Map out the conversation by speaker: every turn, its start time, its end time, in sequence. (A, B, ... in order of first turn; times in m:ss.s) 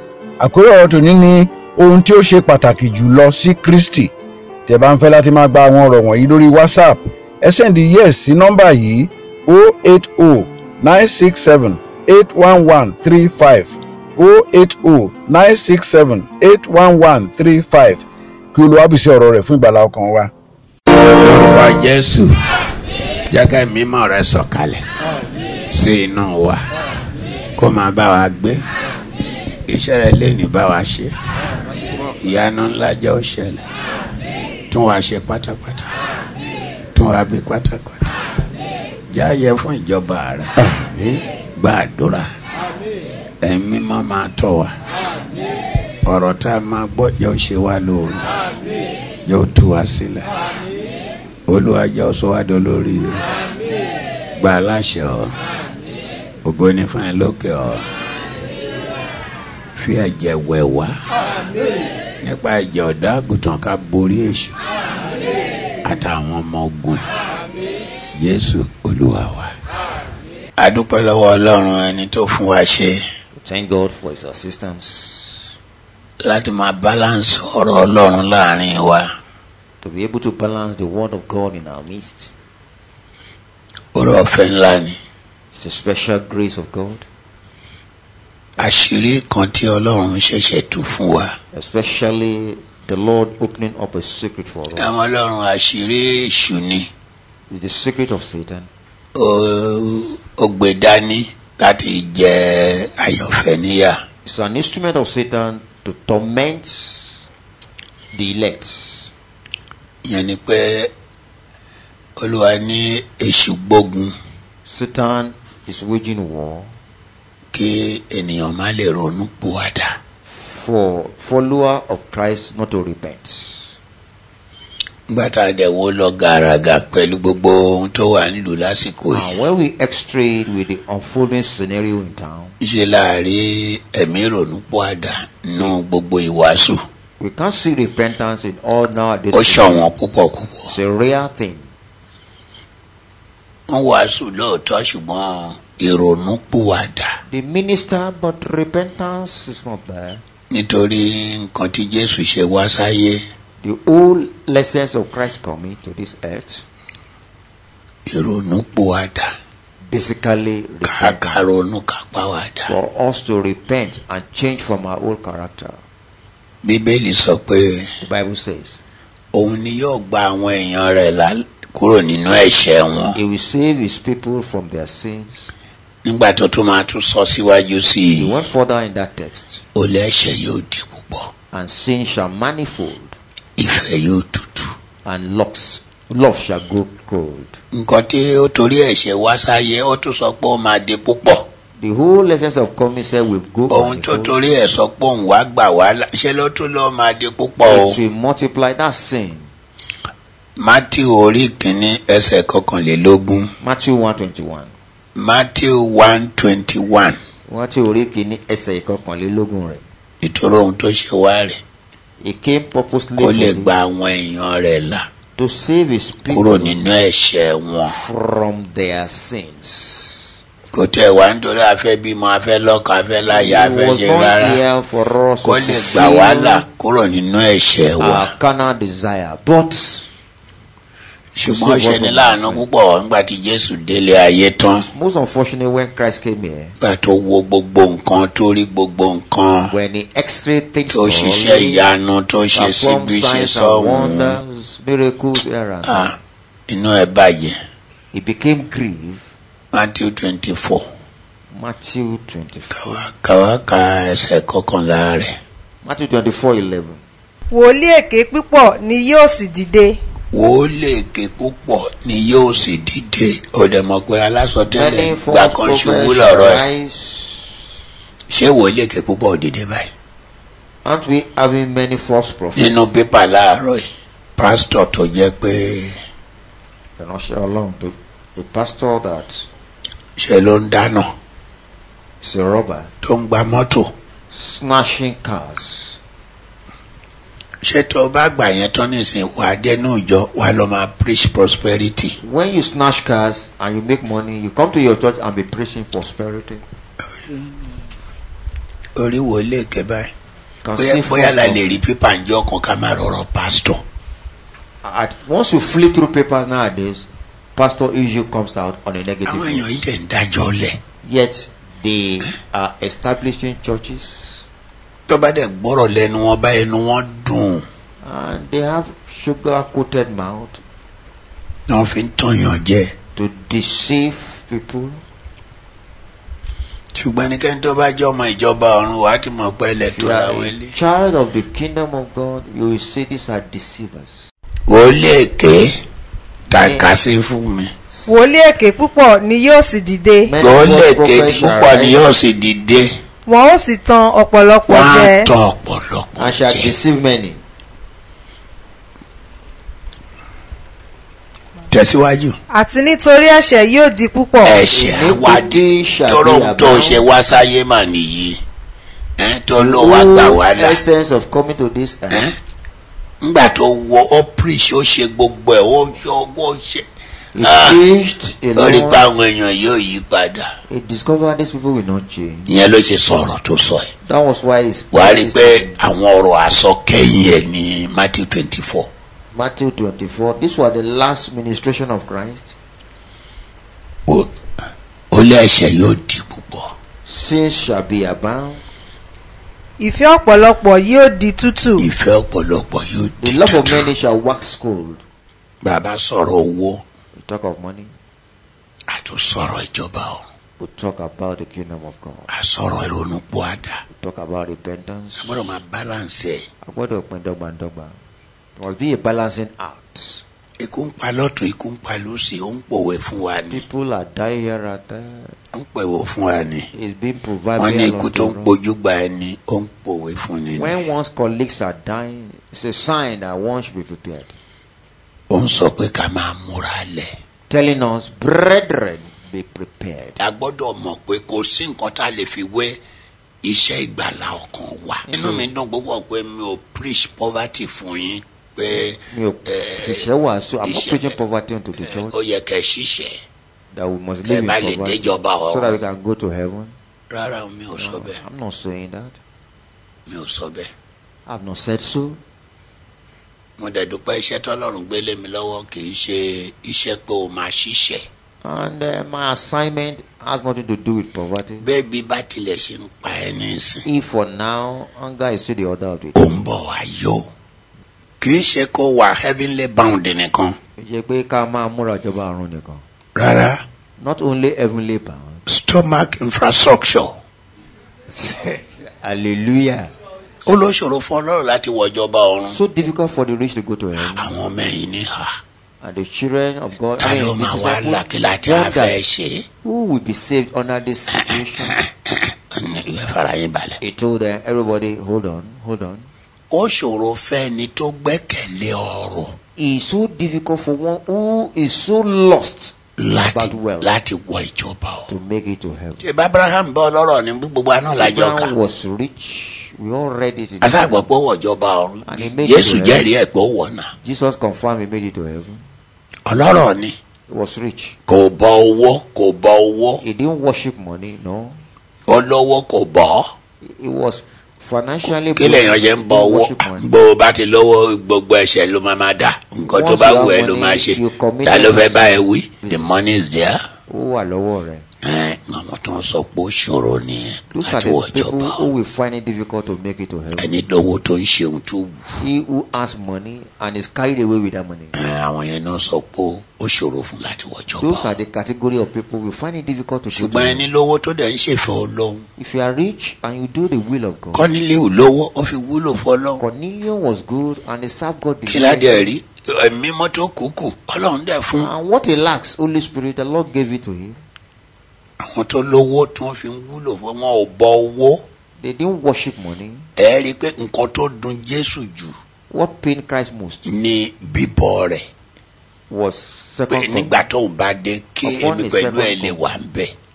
0:00.4-0:04.1 A
0:04.7-0:18.0 A
0:18.5-0:20.3 A
0:21.2-0:22.3 B
0:23.3-0:24.8 B
0:25.7-0:26.6 B
0:27.6-0:28.6 B
0:29.7-0:31.2 B
0:31.8-0:32.4 C
0:32.2-0:33.6 B
0:34.7-0:35.9 B
0:36.9-0:38.2 B
0:39.1-0:40.5 B
0:40.7-0:41.2 C
0:41.6-0:42.3 B
0:43.4-0:44.7 B
0:46.0-0:48.3 B
0:49.2-0:50.3 B
0:51.5-0:53.3 B
0:54.4-0:55.3 B
0:56.4-0:57.8 B
0:59.7-1:00.9 B
1:02.2-1:04.6 B
1:05.8-1:07.1 B
1:08.2-1:09.5 B
1:10.6-1:13.0 B
1:13.3-1:15.6 C
1:16.2-1:19.1 B
1:19.8-1:22.3 C
1:23.9-1:25.0 B
1:25.5-1:27.0 C
1:28.6-1:31.3 B
1:31.5-1:34.9 C
1:34.8-1:36.9 B
1:37.5-1:38.7 C
1:39.1-1:44.0 B
1:44.2-1:47.3 C
1:48.1-1:49.1 C
1:50.0-1:50.9 B
1:52.2-1:54.1 B
1:54.6-1:56.7 C
1:57.5-1:59.9 B
2:00.2-2:03.8 C
2:05.1-2:09.3 B
2:09.1-2:12.6 C
2:12.6-2:16.8 B
2:17.2-2:19.9 C
2:19.3-2:20.7 B
2:20.6-2:21.7 C
2:23.7-2:27.1 B
2:27.3-2:30.2 C
2:30.5-2:33.2 B
2:33.6-2:36.6 C
2:38.1-2:39.2 B
2:39.9-2:41.4 C
2:40.8-2:42.7 B
2:42.7-2:45.8 C
2:46.6-2:47.9 B
2:48.0-2:48.8 C
2:49.3-2:53.2 B
2:53.1-2:55.5 C
2:56.0-2:58.4 B
2:58.1-2:59.6 C
2:59.7-3:01.3 B
3:01.5-3:03.2 C
3:03.6-3:04.7 B
3:05.0-3:07.6 C
3:07.7-3:11.4 B
3:11.8-3:14.4 C
3:13.7-3:18.0 B
3:17.6-3:19.5 C
3:20.6-3:23.5 B
3:23.6-3:24.7 C
3:25.2-3:27.2 B
3:27.5-3:29.8 C
3:30.2-3:31.6 B
3:32.2-3:33.7 C
3:33.2-3:35.0 B
3:35.4-3:36.8 C
3:36.3-3:38.0 B
3:37.8-3:40.4 C
3:40.7-3:44.6 B
3:43.3-3:46.6 C
3:45.4-3:48.3 B
3:48.0-3:50.1 C
3:51.3-3:54.9 B
3:51.4-3:52.7 C
3:54.9-3:56.8 C
3:56.8-3:59.7 B
3:59.7-4:01.9 C
4:00.9-4:04.4 B
4:02.5-4:06.2 C
4:05.8-4:06.2 B
4:06.7-4:07.6 B
4:08.1-4:09.2 C
4:09.7-4:10.8 B
4:11.5-4:13.0 C
4:12.7-4:15.4 B
4:15.8-4:17.0 C
4:17.5-4:20.0 D
4:20.3-4:26.6 B
4:24.7-4:27.6 C
4:28.3-4:29.9 B
4:30.8-4:32.8 C
4:32.6-4:36.0 B
4:37.0-4:39.5 C
4:40.2-4:41.1 B
4:42.2-4:42.9 C
4:43.0-4:43.9 B
4:44.3-4:46.0 C
4:47.6-4:52.2 B
4:52.2-4:56.6 C
4:57.2-4:57.5 B
4:59.0-5:00.1 B
5:00.6-5:01.8 C
5:00.8-5:03.8 B
5:04.8-5:09.8 C
5:09.2-5:10.8 B
5:11.0-5:14.5 C
5:15.1-5:17.6 B
5:18.0-5:20.6 C
5:21.7-5:22.9 B
5:23.2-5:25.0 C
5:26.9-5:30.8 B
5:29.8-5:34.3 C
5:34.7-5:35.7 B
5:36.5-5:36.9 C
5:36.5-5:37.7 B
5:38.1-5:40.3 D
5:40.3-5:42.1 C
5:40.4-5:42.9 B
5:43.3-5:45.3 D
5:44.7-5:46.7 B
5:46.2-5:47.4 C
5:51.7-5:52.4 B
5:52.5-5:54.7 D
5:54.4-5:58.4 B
5:54.7-5:57.1 C
5:59.2-6:00.8 B
5:59.6-6:02.3 C
6:03.2-6:07.8 B
6:07.3-6:09.1 C
6:08.6-6:10.4 B
6:10.7-6:12.6 C
6:12.5-6:13.9 B
6:14.0-6:15.8 C
6:14.9-6:18.9 B
6:19.3-6:22.6 C
6:25.1-6:26.7 B
6:27.0-6:28.6 C
6:29.8-6:31.9 D
6:31.8-6:33.9 B
6:33.2-6:35.0 C
6:35.6-6:36.8 B
6:37.1-6:37.9 C
6:38.9-6:40.2 B
6:40.6-6:42.3 C
6:42.3-6:43.8 B
6:43.9-6:45.4 C
6:45.2-6:46.5 B
6:46.6-6:48.0 C
6:48.6-6:50.2 C
6:50.6-6:53.6 B
6:53.5-6:55.4 C
6:55.5-6:56.7 B
6:56.7-6:58.6 C
6:57.6-7:00.8 B
7:00.6-7:04.4 C
7:05.3-7:07.1 B
7:07.5-7:10.2 C
7:10.2-7:12.8 B
7:13.4-7:20.0 B
7:15.0-7:15.5 C
7:19.1-7:22.2 C
7:20.6-7:21.2 B
7:21.8-7:23.2 B
7:23.7-7:26.7 C
7:24.2-7:25.8 B
7:27.1-7:28.2 B
7:27.7-7:29.2 C
7:30.1-7:30.7 B
7:31.3-7:32.2 C
7:33.6-7:38.0 B
7:38.4-7:41.7 C
7:41.6-7:43.8 B
7:43.8-7:46.4 C
7:46.1-7:47.3 B
7:48.2-7:50.6 B
7:50.8-7:52.8 C
7:53.2-7:53.6 B
7:54.0-7:55.4 C
7:55.5-7:57.2 B
7:58.1-7:59.9 C
8:00.4-8:02.6 B
8:02.4-8:04.3 C
8:04.0-8:05.4 B
8:05.8-8:09.0 C
8:07.0-8:09.4 B
8:09.6-8:11.8 C
8:11.2-8:13.8 B
8:13.8-8:16.1 C
8:16.5-8:19.4 B
8:19.6-8:24.0 C
8:23.0-8:25.1 B
8:25.1-8:26.0 C
8:26.0-8:28.5 B
8:27.9-8:31.1 C
8:30.6-8:33.9 B
8:32.0-8:33.1 C
8:34.0-8:35.6 C
8:36.2-8:37.0 B
8:37.3-8:38.0 C
8:38.1-8:40.0 B
8:40.0-8:41.6 C
8:42.1-8:43.3 B
8:43.6-8:46.9 C
8:45.3-8:53.6 B
8:49.6-8:53.1 C
8:53.9-8:54.8 C
8:55.0-8:58.6 B
8:57.5-9:00.6 C
9:00.4-9:02.1 B
9:02.2-9:04.9 C
9:04.9-9:08.1 B
9:07.8-9:10.7 C
9:10.1-9:12.2 B
9:12.4-9:14.5 C
9:14.3-9:16.4 B
9:16.4-9:19.1 C
9:18.5-9:21.7 B
9:21.6-9:24.2 C
9:25.2-9:28.2 B
9:28.6-9:29.9 C
9:30.0-9:32.1 B
9:32.5-9:33.7 C
9:33.6-9:35.0 B
9:35.9-9:37.2 C
9:36.7-9:39.9 B
9:38.2-9:39.6 C